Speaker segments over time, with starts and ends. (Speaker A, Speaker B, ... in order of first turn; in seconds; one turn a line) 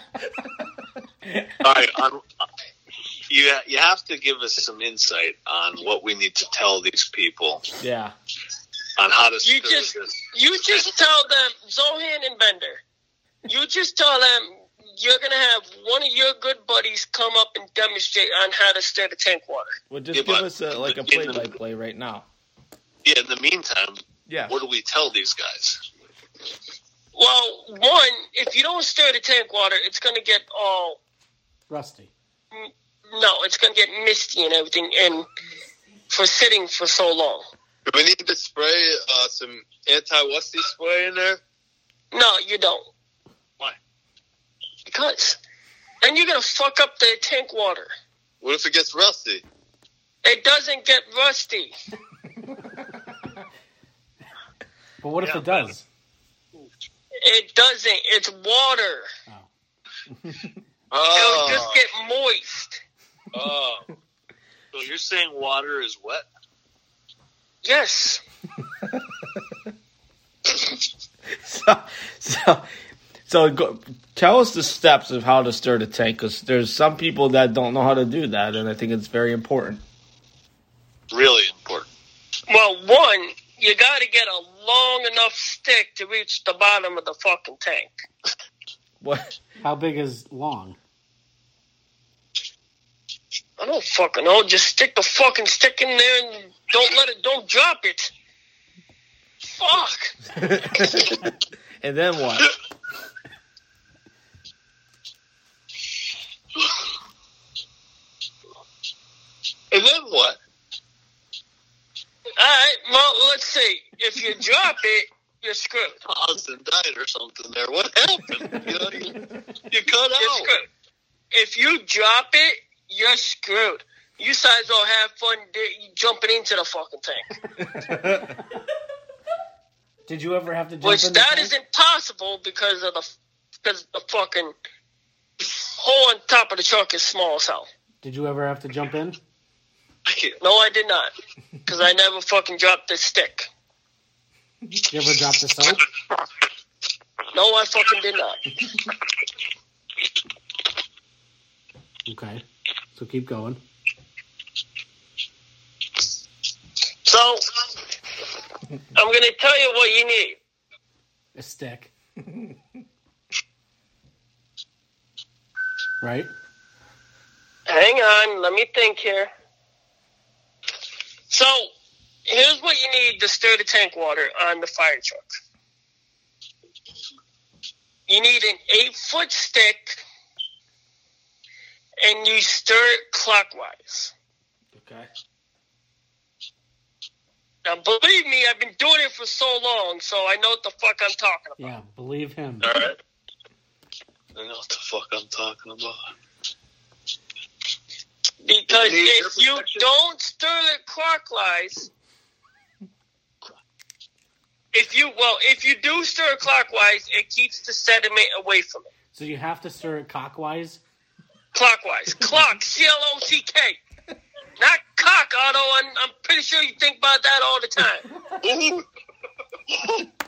Speaker A: 1.6-2.2
Speaker A: 3.3-7.6
Speaker B: 7.8-8.1
Speaker A: 9.0-10.2
Speaker C: 9.4-12.8
Speaker C: 13.4-19.7
Speaker B: 19.9-22.2
Speaker A: 20.1-21.5
Speaker A: 23.0-25.8
Speaker B: 24.3-24.6
Speaker C: 27.1-31.0
Speaker D: 31.7-32.1
Speaker C: 32.5-35.2
Speaker C: 36.1-37.4
Speaker E: 37.9-41.4
Speaker C: 42.1-42.9
Speaker C: 44.9-45.4
Speaker C: 46.0-47.9
Speaker E: 48.4-49.4
Speaker C: 50.2-51.7
Speaker D: 55.0-55.8
Speaker A: 55.2-55.7
Speaker C: 57.2-59.1
Speaker B: 60.1-60.5
Speaker E: 60.9-61.8
Speaker C: 61.1-62.8
Speaker E: 63.3-63.8
Speaker A: 64.7-66.2
Speaker C: 67.6-68.2
Speaker B: 68.8-69.2
Speaker B: 71.3-72.7
Speaker B: 73.2-79.8
Speaker A: 81.1-81.9
Speaker C: 82.5-87.9
Speaker B: 89.0-89.4
Speaker D: 89.6-90.8
Speaker C: 93.6-98.1
Speaker C: 99.5-100.2
Speaker B: 100.3-102.5
Speaker A: 109.7-110.4
Speaker C: 112.4-116.0
Speaker A: 116.0-119.2
Speaker A: 119.7-120.5
Speaker C: 120.2-120.7
Speaker C: 121.3-127.2
Speaker B: 127.6-128.4
Speaker D: 130.1-131.5
Speaker C: 130.8-134.5
Speaker C: 135.4-137.7
Speaker D: 138.0-139.2
Speaker A: 140.1-140.4
Speaker C: 140.4-141.1
Speaker C: 141.7-143.5
Speaker D: 144.9-145.8
Speaker C: 147.3-148.5
Speaker D: 152.1-153.6
Speaker C: 157.1-157.4
Speaker C: 158.9-160.4
Speaker D: 161.3-161.9
Speaker B: 162.2-162.6
Speaker D: 166.0-166.3
Speaker C: 167.7-169.3
Speaker C: 171.3-171.7
Speaker C: 172.3-175.3
Speaker C: 178.1-180.0
Speaker C: 182.0-184.1
Speaker B: 184.7-185.1
Speaker C: 187.6-191.7
Speaker D: 191.6-192.8
Speaker A: 192.6-193.0
Speaker A: 194.3-196.1
Speaker C: 198.4-201.9
Speaker A: 198.7-199.8
Speaker C: 204.7-208.9
Speaker D: 209.1-210.8
Speaker C: 211.5-213.8
Speaker C: 214.6-218.1
Speaker A: 218.4-218.8
Speaker A: 219.7-220.0